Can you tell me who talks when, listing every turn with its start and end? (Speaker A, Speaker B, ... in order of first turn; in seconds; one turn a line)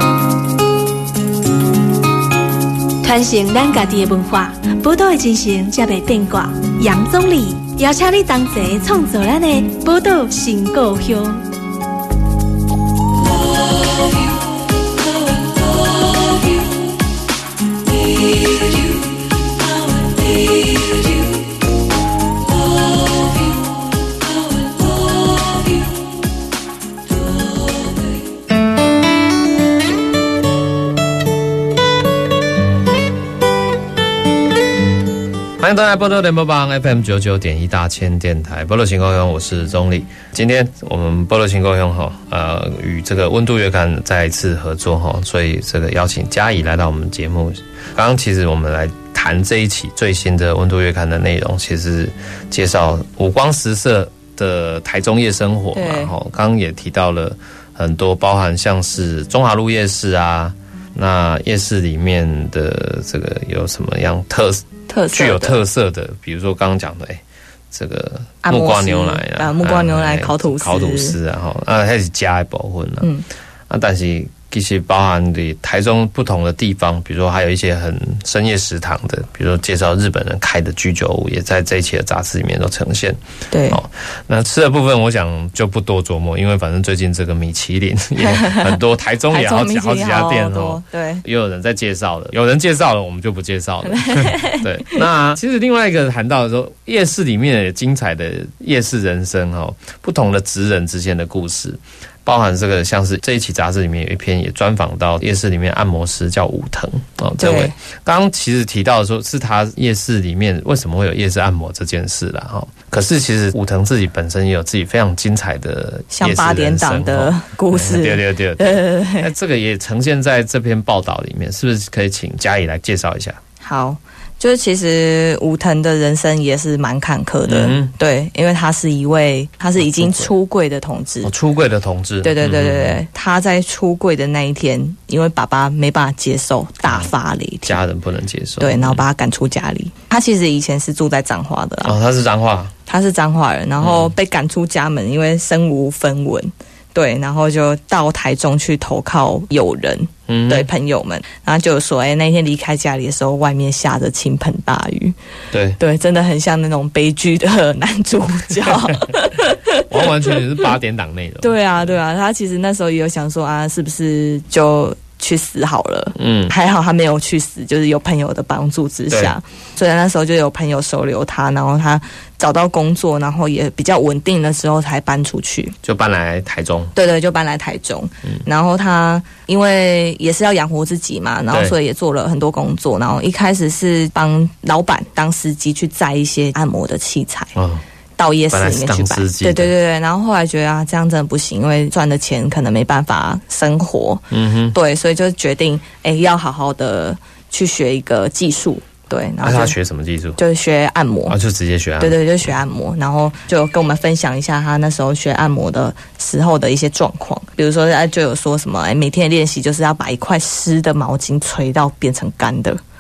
Speaker A: 3.0-11.4
Speaker B: 35.6-73.1
Speaker C: 55.7-56.1
Speaker C: 64.9-65.6
Speaker C: 68.4-71.2
Speaker B: 73.7-83.2
Speaker C: 83.5-83.8
Speaker B: 83.7-123.4
Speaker C: 88.2-91.2
Speaker C: 93.8-95.0
Speaker C: 107.4-107.7
Speaker C: 116.1-119.3
Speaker C: 123.6-131.3
Speaker B: 127.5-127.9
Speaker B: 129.8-130.3
Speaker B: 131.2-133.0
Speaker C: 132.2-137.8
Speaker B: 137.7-139.0
Speaker C: 138.6-142.0
Speaker B: 141.8-142.7
Speaker C: 142.9-155.2
Speaker B: 143.8-144.1
Speaker B: 150.3-150.7
Speaker B: 155.5-155.8
Speaker C: 155.8-160.7
Speaker B: 158.6-159.0
Speaker B: 159.8-161.9
Speaker C: 161.4-175.8
Speaker B: 166.2-166.5
Speaker B: 169.1-169.3
Speaker B: 175.8-176.9
Speaker C: 176.9-187.5
Speaker B: 187.6-187.8
Speaker C: 188.2-199.8
Speaker B: 188.5-189.7
Speaker B: 194.3-194.8
Speaker B: 199.4-200.4
Speaker C: 200.4-201.4
Speaker B: 201.3-202.2
Speaker C: 202.0-212.8